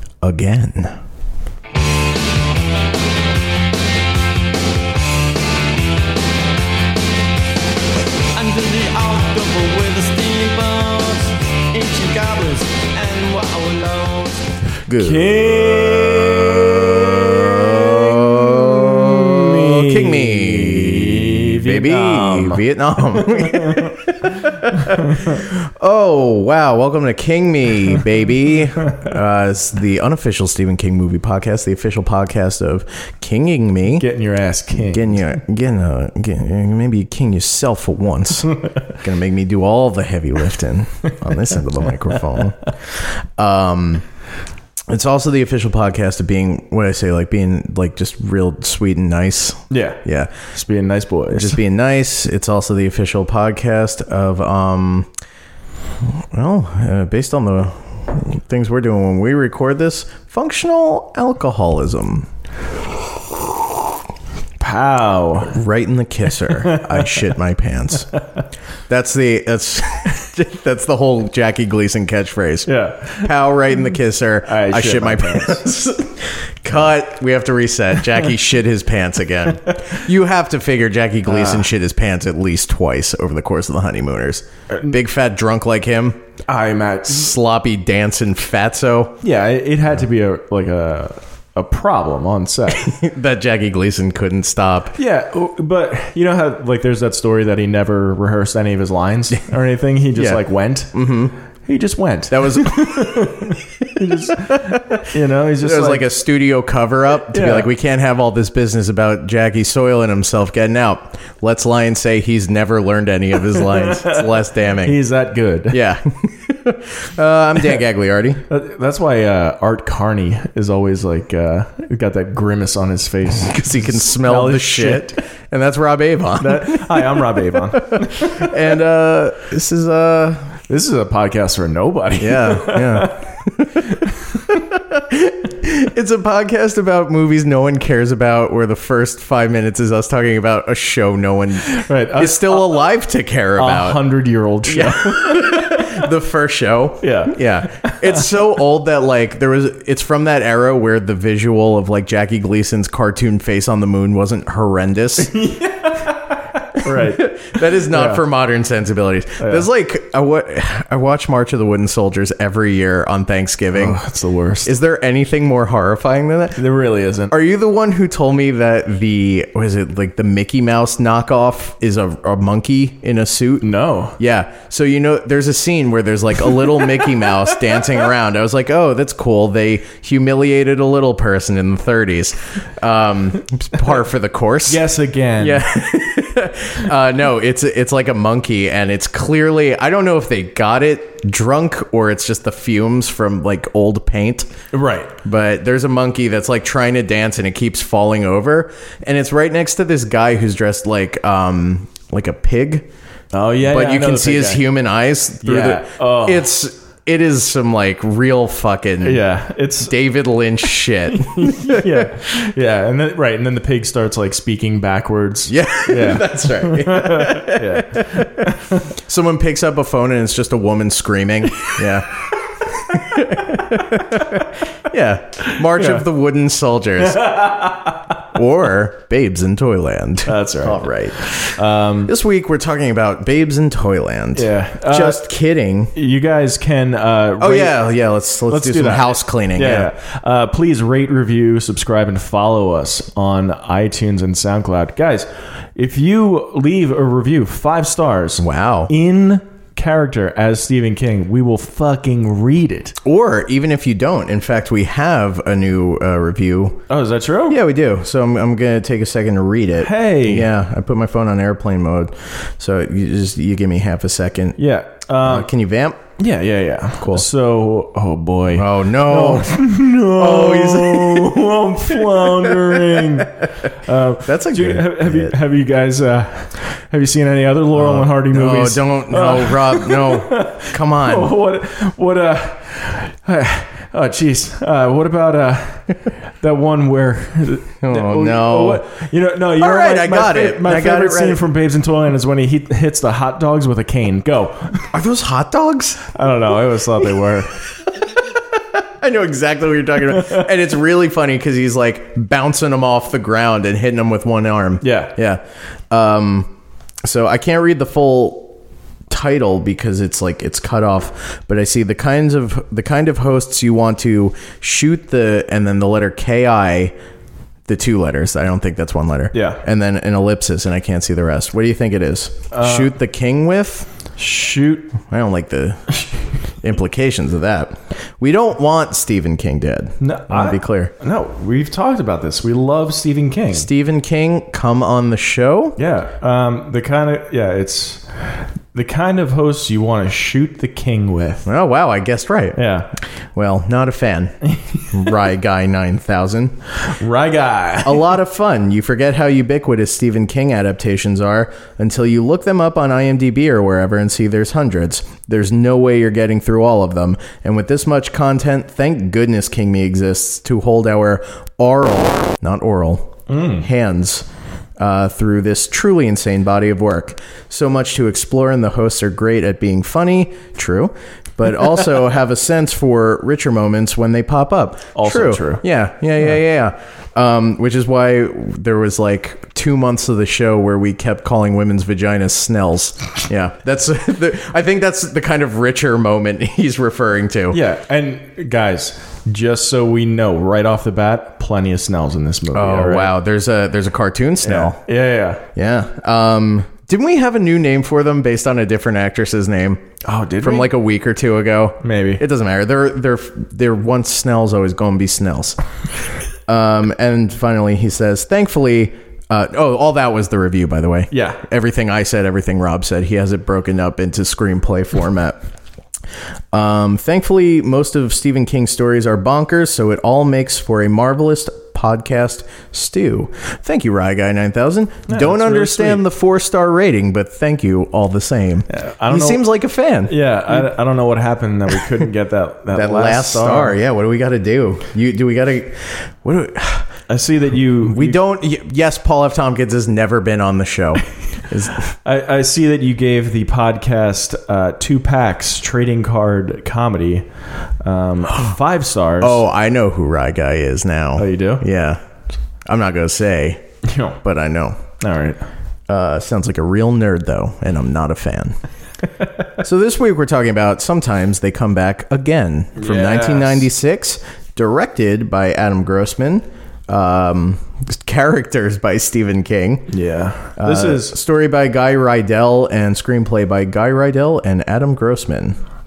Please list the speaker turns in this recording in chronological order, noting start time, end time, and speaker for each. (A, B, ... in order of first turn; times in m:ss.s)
0:00.2-0:01.0 A
0:08.3-0:14.5 B
0:14.8-0:34.1 A
0:15.0-0:23.9 C
0:24.9-0:25.4 C
0:33.9-0:35.2 C
0:34.8-0:44.0 A
0:44.9-0:50.3 A
0:49.7-0:50.0 C
0:50.5-0:51.6 C
0:51.3-0:55.1 A
0:56.1-1:02.3 A
1:04.6-1:05.6 C
1:05.5-1:08.1 A
1:06.4-1:07.2 C
1:08.9-1:26.2 A
1:12.6-1:13.3 C
1:14.4-1:15.7 C
1:21.3-1:21.6 C
1:26.5-1:27.4 C
1:27.1-1:29.2 A
1:29.2-1:32.9 C
1:32.8-1:35.0 A
1:35.0-1:41.0 C
1:40.1-1:41.3 A
1:41.6-1:46.1 C
1:42.3-1:43.6 A
1:44.2-1:45.0 A
1:45.6-1:55.0 A
1:47.3-1:47.7 C
1:53.5-1:55.8 C
1:55.7-1:58.4 A
1:58.5-2:05.2 C
2:03.5-2:10.6 A
2:06.4-2:08.6 C
2:10.7-2:13.2 C
2:12.2-2:14.0 A
2:14.7-2:24.0 A
2:21.6-2:22.8 C
2:23.6-2:26.1 C
2:24.6-2:35.4 A
2:27.0-2:28.4 C
2:35.2-2:38.2 C
2:36.8-2:44.0 A
2:39.4-2:39.7 C
2:43.7-2:44.7 C
2:44.6-2:46.6 A
2:46.6-2:47.3 C
2:47.3-3:04.8 A
2:53.6-2:54.2 C
3:04.6-3:05.7 C
3:05.4-3:14.5 A
3:14.7-3:15.1 C
3:15.2-3:22.8 A
3:23.3-3:24.6 C
3:23.6-3:29.2 A
3:25.4-3:26.5 C
3:29.0-3:30.0 C
3:29.8-3:32.1 A
3:31.1-3:38.8 C
3:35.5-3:42.2 A
3:42.8-3:47.6 A
3:45.6-3:46.0 C
3:47.0-3:48.0 C
3:48.3-3:55.9 A
3:50.2-3:52.1 C
3:54.3-3:55.2 C
3:55.9-3:57.8 C
3:57.4-3:59.9 A
3:58.5-4:12.9 C
4:08.4-4:08.9 A
4:13.0-4:16.8 A
4:16.9-4:17.6 C
4:17.5-4:24.6 A
4:19.8-4:20.5 C
4:24.6-4:25.5 C
4:25.2-4:26.0 A
4:26.2-4:54.8 C
4:27.0-4:27.2 A
4:28.5-4:31.5 A
4:32.1-4:33.0 A
4:34.2-4:35.4 A
4:37.8-4:41.3 A
4:47.8-4:48.8 A
4:49.6-4:51.4 A
4:54.9-4:56.1 A
4:56.1-4:57.6 C
4:58.7-5:06.5 A
5:00.2-5:00.4 C
5:04.8-5:05.1 C
5:07.0-5:08.5 A
5:09.1-5:16.9 A
5:17.7-5:23.9 A
5:19.3-5:19.6 C
5:22.5-5:22.9 C
5:24.2-5:25.0 C
5:25.1-5:25.9 A
5:26.6-5:30.9 A
5:30.0-5:33.7 C
5:33.5-5:35.8 A
5:35.8-5:38.1 C
5:38.7-5:41.4 C
5:41.4-5:42.6 A
5:42.6-5:42.9 C
5:43.3-5:44.3 A
5:44.9-5:46.5 A
5:46.9-5:48.1 C
5:47.8-6:04.2 A
6:03.3-6:03.7 C
6:04.8-6:27.6 A
6:14.9-6:15.6 C
6:27.5-6:33.1 C
6:32.5-6:34.8 A
6:34.4-6:35.4 C
6:35.5-6:39.8 A
6:40.0-6:40.7 C
6:40.4-6:45.6 A
6:41.8-6:42.2 C
6:46.5-6:55.4 A
6:51.1-6:51.4 C
6:56.5-7:10.1 A
7:05.1-7:06.0 C
7:08.7-7:09.5 C
7:10.0-7:13.8 C
7:12.7-7:16.9 A
7:17.1-7:18.2 C
7:17.8-7:21.8 A
7:22.0-7:27.3 C
7:27.8-7:29.4 C
7:29.2-7:32.0 A
7:31.2-7:31.7 C
7:32.6-7:33.6 A
7:33.8-7:34.2 C
7:34.2-7:34.8 A
7:35.0-7:35.4 C
7:35.9-7:38.6 A
7:39.6-7:49.9 A
7:42.8-7:43.7 C
7:49.9-7:51.2 C
7:50.6-7:55.6 A